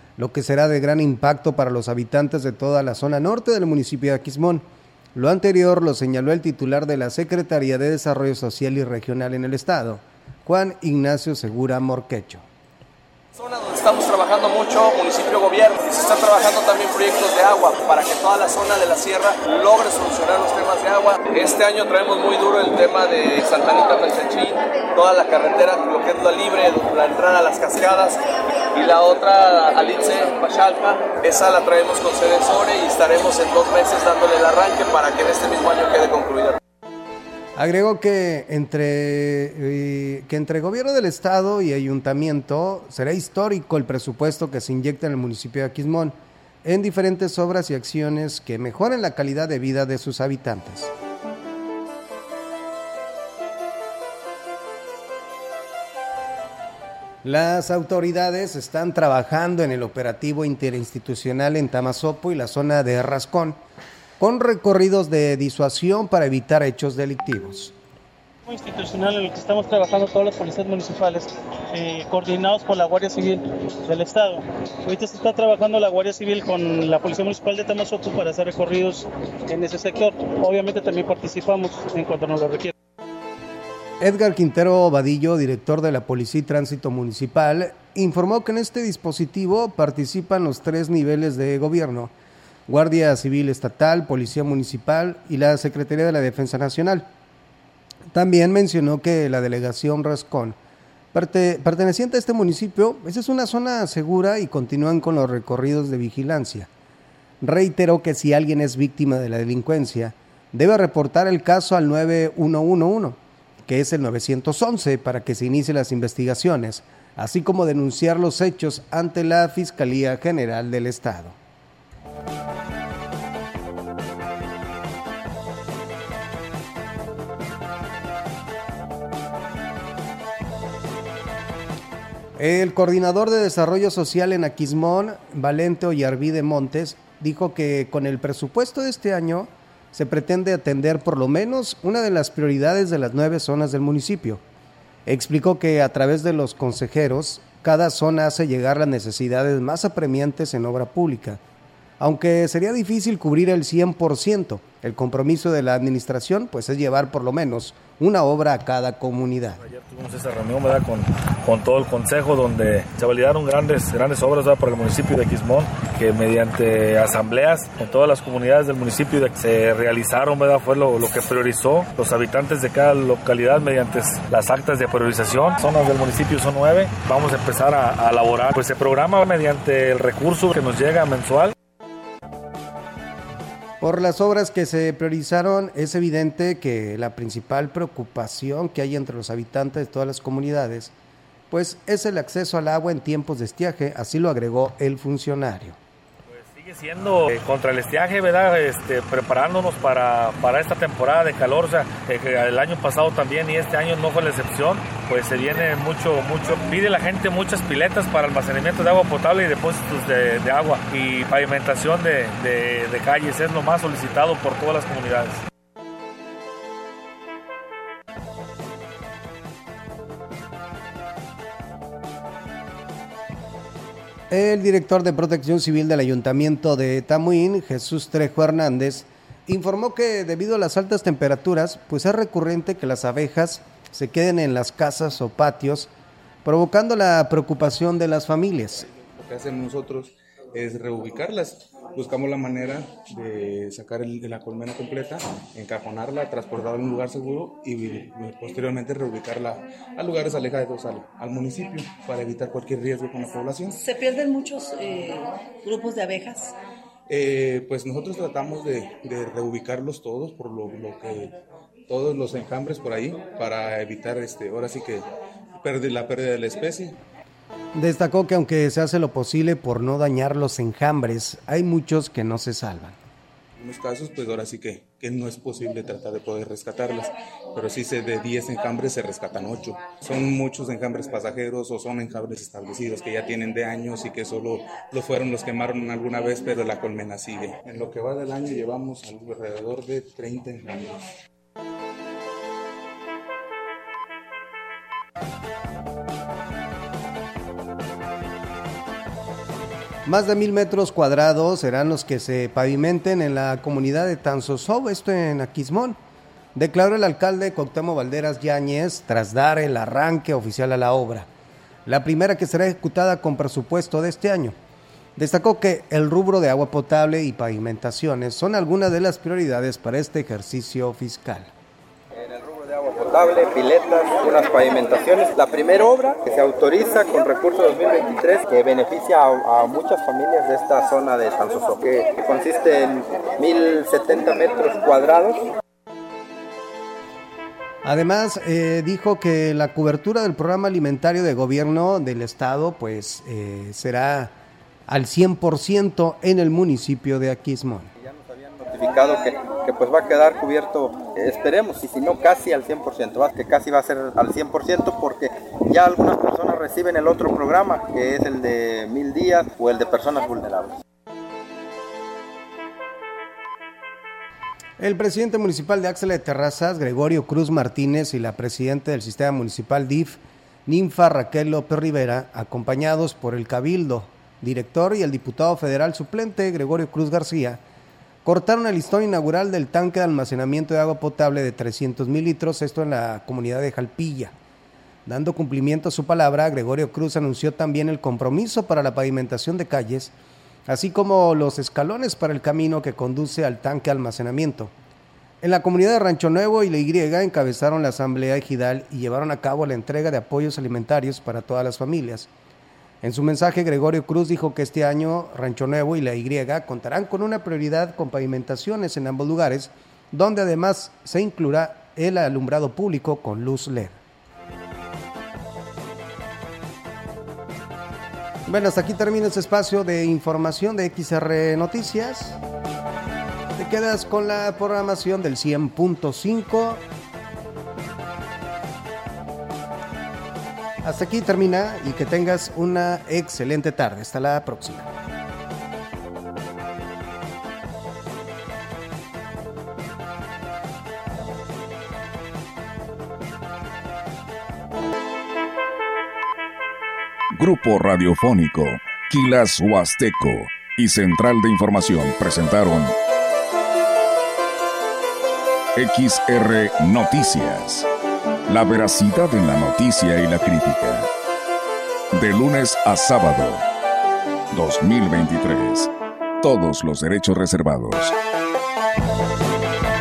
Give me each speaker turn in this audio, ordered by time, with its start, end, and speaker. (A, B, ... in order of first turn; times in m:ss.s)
0:00.2-0:12.4 A
0:13.3-0:28.2 B
0:28.7-0:36.6 B
0:37.6-0:50.9 A
0:57.2-1:03.6 A
1:04.2-1:07.7 A
1:08.4-1:22.7 C
1:24.0-1:32.1 A
1:32.7-1:37.1 A
1:38.1-1:40.6 A
1:41.1-1:46.7 A
1:47.4-2:01.4 A
2:12.4-2:24.4 A
2:25.0-2:31.4 A
2:32.0-2:39.6 A
2:39.6-3:01.5 D
3:03.8-3:10.9 A
3:11.5-3:15.8 A
3:16.3-3:35.4 D
3:44.3-3:55.9 A
3:56.4-3:58.8 A
3:59.0-4:13.8 E
4:13.8-4:15.1 F
4:15.7-4:16.5 F
4:17.1-4:21.4 E
4:21.9-4:25.0 E
4:25.6-4:27.0 E
4:27.7-4:33.0 A
4:33.6-4:51.0 E
5:00.0-5:06.0 A
5:06.5-5:11.3 A
5:11.8-5:14.5 A
5:15.2-5:21.5 A
5:22.1-5:35.4 G
5:37.8-5:44.3 A
5:44.9-5:47.9 A
5:48.0-6:00.8 G
6:04.8-6:17.6 A
6:18.2-6:24.3 A
6:25.0-6:30.1 A
6:30.7-6:34.7 A
6:35.4-6:42.3 A
6:43.0-6:54.0 A
6:58.5-7:02.4 A
7:03.6-7:06.8 A
7:10.8-7:14.9 A
7:27.3-7:33.0 H
7:35.8-7:37.9 H
7:38.5-7:41.1 H
7:42.1-7:43.6 H
7:44.5-7:48.1 H